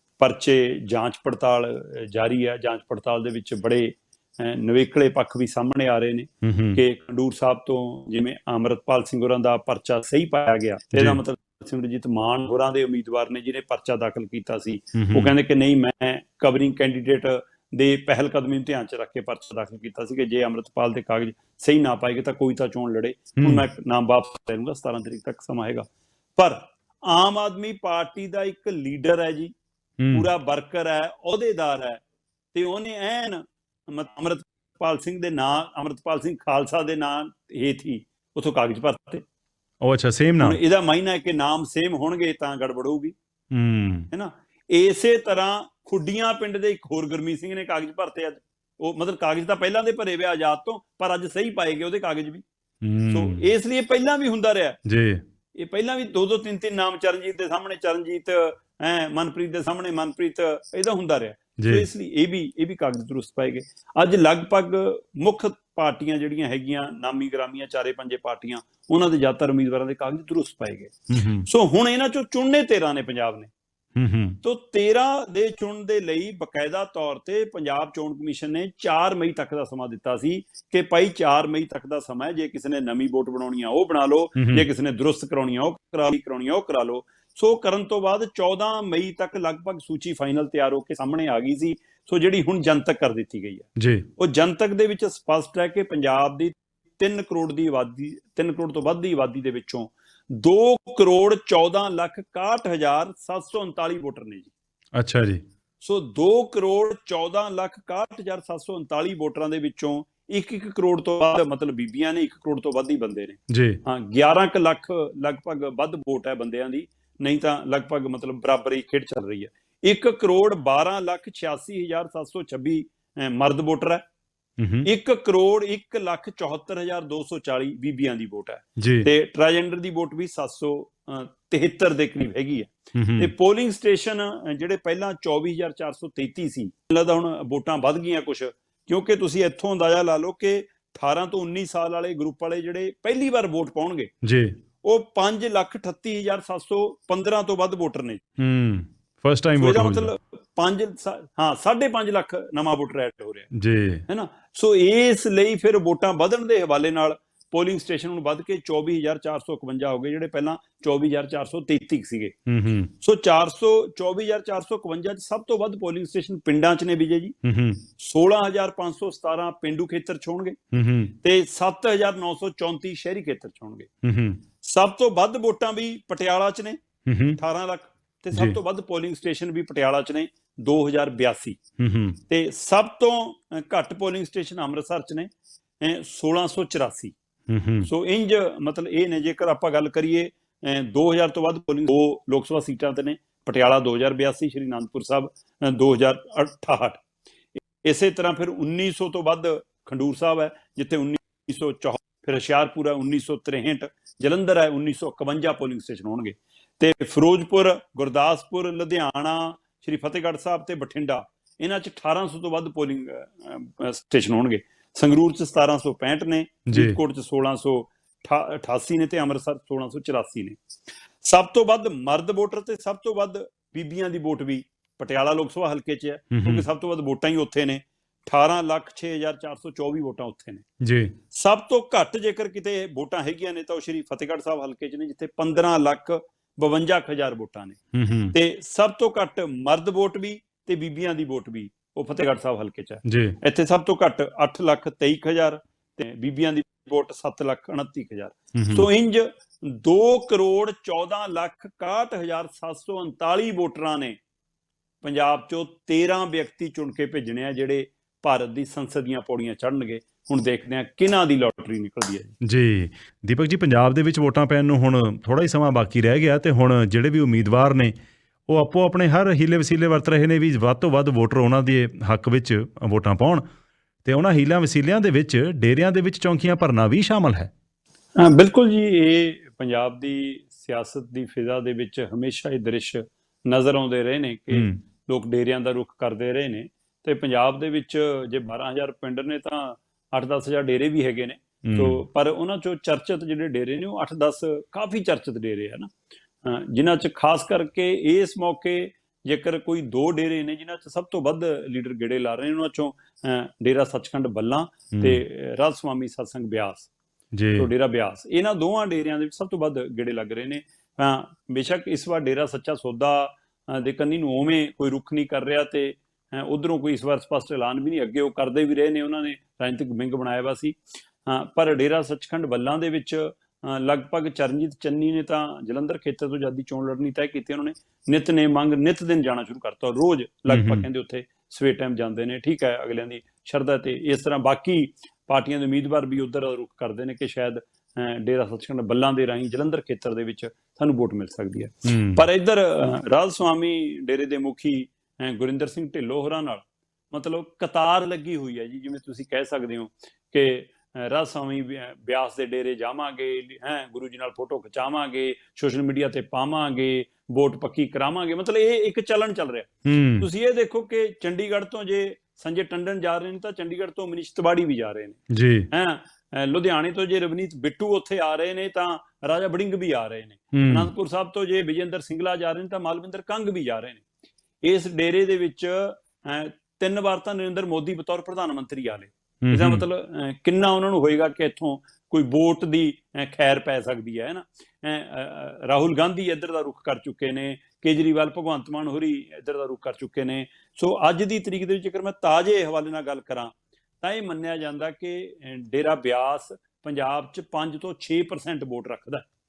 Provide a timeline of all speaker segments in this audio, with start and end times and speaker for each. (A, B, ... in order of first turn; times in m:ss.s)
0:00.2-0:29.5 A
0:06.4-0:06.8 B
0:10.9-0:11.2 B
0:14.9-0:15.3 B
0:23.4-0:23.6 B
0:30.0-0:30.3 B
0:30.1-0:32.0 A
0:32.5-0:39.2 A
0:39.8-0:40.6 B
0:40.4-0:43.1 A
0:43.5-0:44.1 B
0:44.1-0:52.4 A
0:52.8-0:53.4 B
0:53.1-0:54.8 A
0:54.8-0:55.2 B
0:55.6-1:13.5 A
1:01.6-1:01.9 B
1:11.1-1:11.5 B
1:14.0-1:14.4 B
1:14.4-1:44.5 A
1:24.4-1:24.7 B
1:33.8-1:34.0 B
1:44.9-1:45.4 B
1:45.8-2:04.0 A
1:53.5-1:53.8 B
2:04.6-2:04.9 B
2:04.8-2:24.1 A
2:08.8-2:09.1 B
2:12.9-2:13.3 B
2:24.2-2:24.6 B
2:24.8-2:28.2 A
2:28.4-2:30.1 B
2:29.6-2:33.5 A
2:33.5-2:34.0 B
2:34.1-2:42.3 A
2:42.5-2:42.9 B
2:43.0-2:47.4 A
2:47.4-2:47.8 B
2:48.0-2:50.6 A
2:50.7-2:51.1 B
2:51.2-2:53.9 A
2:54.0-2:54.4 B
2:54.6-2:56.8 A
2:57.0-2:57.4 B
2:57.4-3:01.6 A
3:01.8-3:02.2 B
3:02.3-3:05.3 A
3:05.8-3:07.1 A
3:07.5-3:07.9 B
3:07.8-3:17.0 A
3:17.5-3:40.6 A
3:36.7-3:37.0 B
3:41.2-3:50.6 A
3:46.3-3:46.6 B
3:50.8-3:51.1 B
3:51.3-3:57.8 A
3:57.9-3:58.3 B
3:58.3-4:14.2 A
4:03.0-4:03.4 B
4:08.5-4:08.9 B
4:15.0-4:22.3 A
4:22.4-4:27.9 B
4:28.5-4:33.4 B
4:34.0-4:37.5 B
4:38.2-4:55.9 A
4:44.5-4:44.8 B
4:51.6-4:52.0 B
4:56.4-5:06.9 A
5:04.9-5:05.2 B
5:07.3-5:07.7 B
5:07.6-6:05.2 A
5:30.5-5:30.8 B
5:41.8-5:42.2 B
5:59.8-6:00.3 B
6:05.3-6:05.7 B
6:05.7-6:14.0 A
6:10.5-6:10.9 B
6:14.6-6:39.2 A
6:19.4-6:19.8 B